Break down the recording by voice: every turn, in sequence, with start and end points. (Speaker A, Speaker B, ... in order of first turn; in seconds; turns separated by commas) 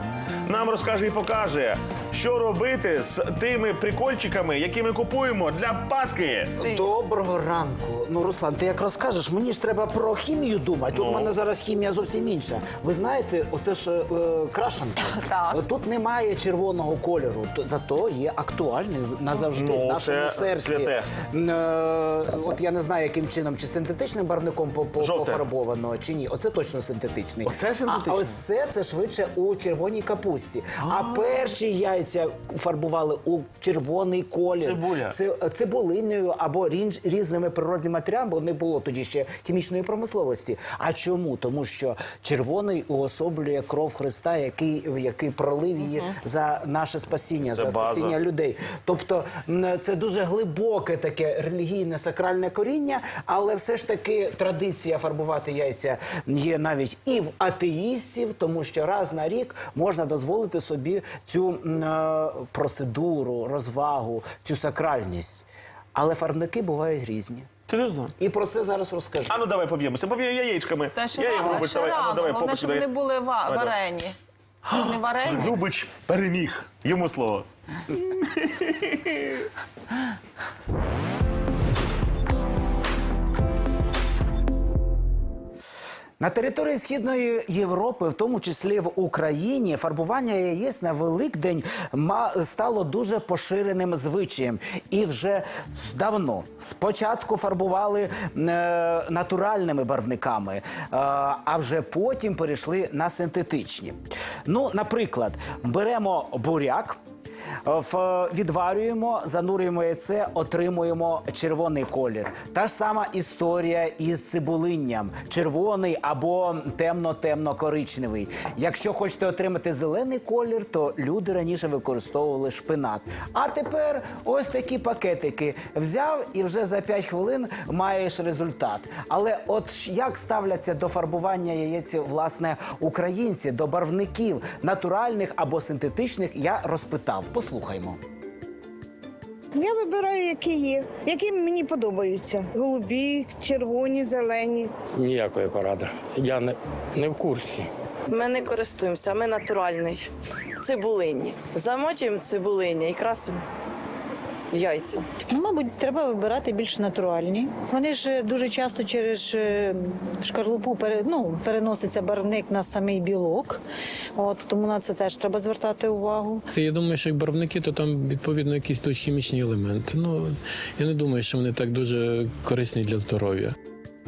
Speaker A: 0.5-6.6, Speaker B: 6.6-67.5, Speaker A: 10.9-11.3, Speaker C: 15.2-15.6, Speaker A: 19.4-21.1, Speaker A: 25.0-25.4, Speaker A: 27.4-28.3, Speaker A: 30.8-31.3, Speaker A: 34.6-35.1, Speaker A: 47.5-48.1, Speaker A: 67.7-68.1, Speaker B: 68.2-69.4, Speaker A: 69.3-73.8, Speaker C: 70.9-74.2, Speaker A: 74.6-79.2, Speaker C: 74.7-75.5, Speaker B: 86.2-103.9, Speaker B: 104.5-107.0, Speaker B: 107.7-138.0, Speaker D: 139.5-144.7, Speaker E: 144.9-147.7, Speaker F: 148.1-153.4, Speaker F: 154.5-155.1, Speaker G: 155.3-163.6, Speaker G: 164.2-166.4, Speaker H: 166.5-173.5